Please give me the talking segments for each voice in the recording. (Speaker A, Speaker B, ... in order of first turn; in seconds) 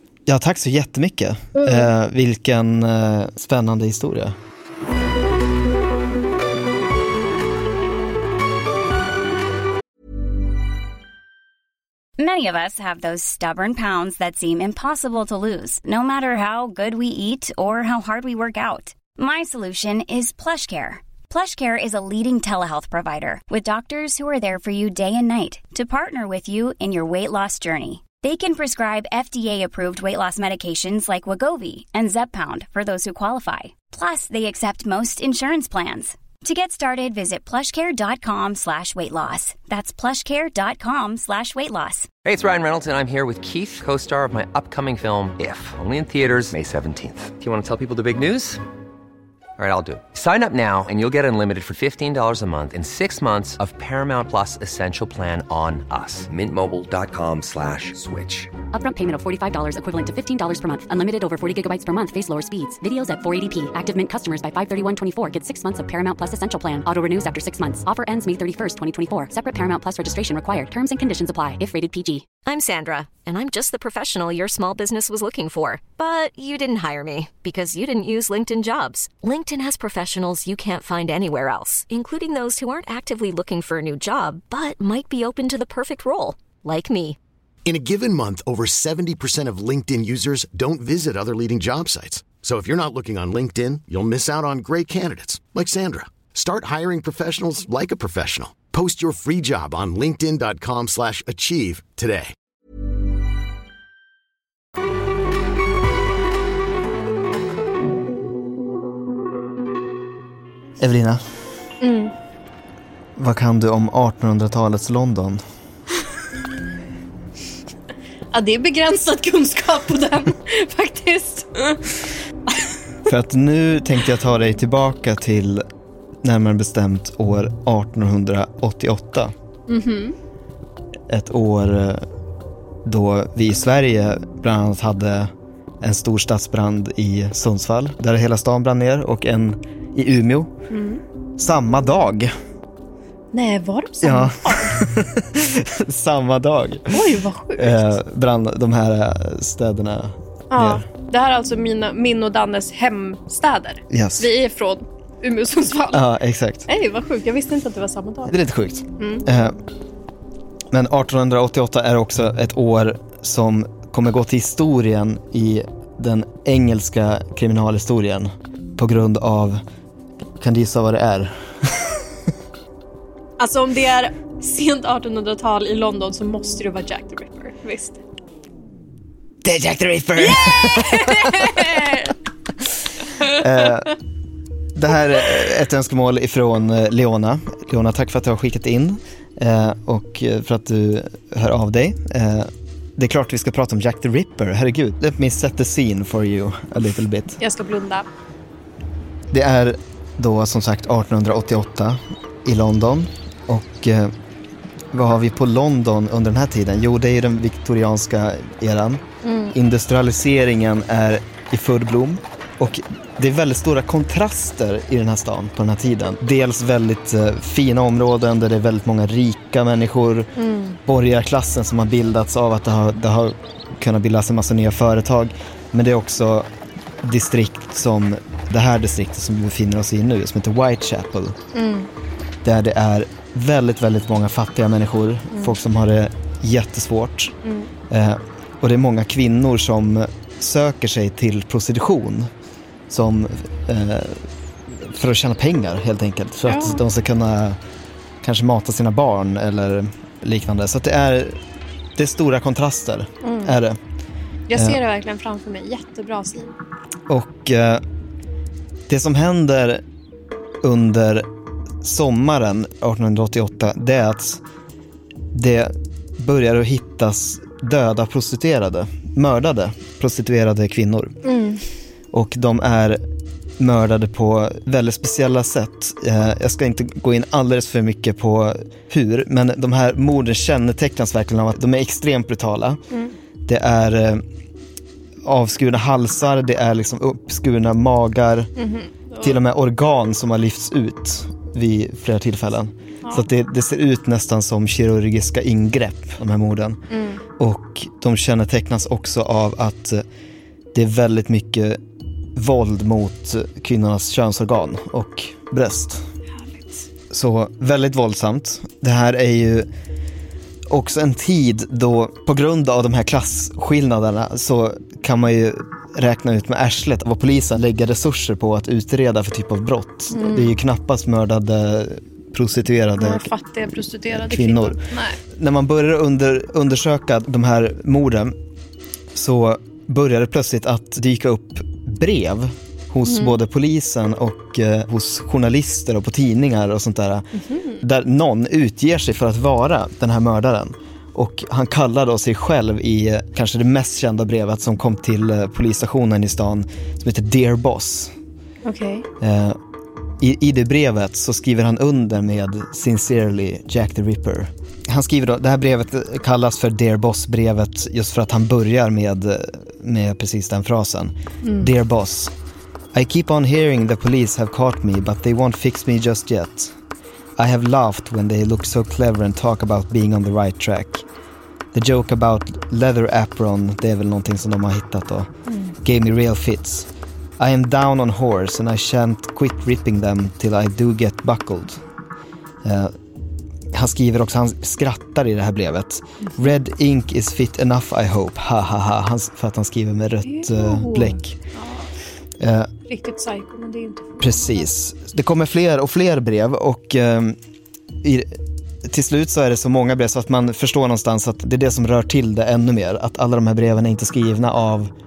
Speaker A: 0.3-4.4, 110.8-111.2, 113.2-115.4, 123.1-125.7, 126.2-129.3, 131.1-132.1, 132.8-140.5, 141.4-142.3, 144.0-147.0, 147.6-150.9, 153.9-154.3, 155.9-156.7, 158.3-159.6, 160.7-169.6, 170.4-172.0, 179.4-181.9, 183.2-183.9, 184.8-197.4, 199.3-204.1, 204.9-220.3, 220.9-226.5, 227.0-231.4, 232.4-237.3, 237.9-242.3, 242.9-247.6, 248.2-251.4, 252.0-253.8, 257.1-257.8, 258.9-259.8, 260.6-261.3, 261.8-264.4, 265.3-271.2, 272.1-273.0, 273.6-282.8, 283.4-284.2, 285.2-288.5, 289.2-296.8, 297.4-300.0, 300.7-301.8, 302.4-306.1, 307.1-309.7, 310.7-323.3, 324.1-328.4, 329.1-337.3, 337.8-348.1, 349.2-349.6, 350.2-362.3, 362.9-366.8, 367.4-371.1, 371.7-381.8, 382.6-382.9, 383.7-391.4, 392.4-392.7, 394.2-397.4, 398.0-404.9
Speaker B: 12.2-42.1
Speaker C: 42.2-48.6, 49.6-58.5
Speaker D: 58.7-72.2
Speaker E: 72.4-87.2
Speaker F: 87.7-102.3
Speaker G: 111.8-112.1, 118.3-122.7, 129.7-130.2, 140.7-141.0, 143.3-144.8, 146.9-148.0, 150.5-156.0, 156.7-158.3, 159.0-159.3, 173.4-178.0, 180.2-182.2, 183.2-183.7, 197.4-198.1, 209.2-209.6, 220.4-220.8, 231.5-231.9, 235.3-235.6, 237.4-237.7, 246.4-246.8, 253.2-253.6, 254.5-256.6, 271.2-271.6, 288.6-289.4, 296.9-297.2, 306.4-306.9, 320.1-320.6, 323.0-325.2, 333.1-333.4, 337.4-337.8, 348.6-349.1, 361.4-361.7, 375.5-375.8, 386.2-386.5, 390.2-391.9, 392.9-394.7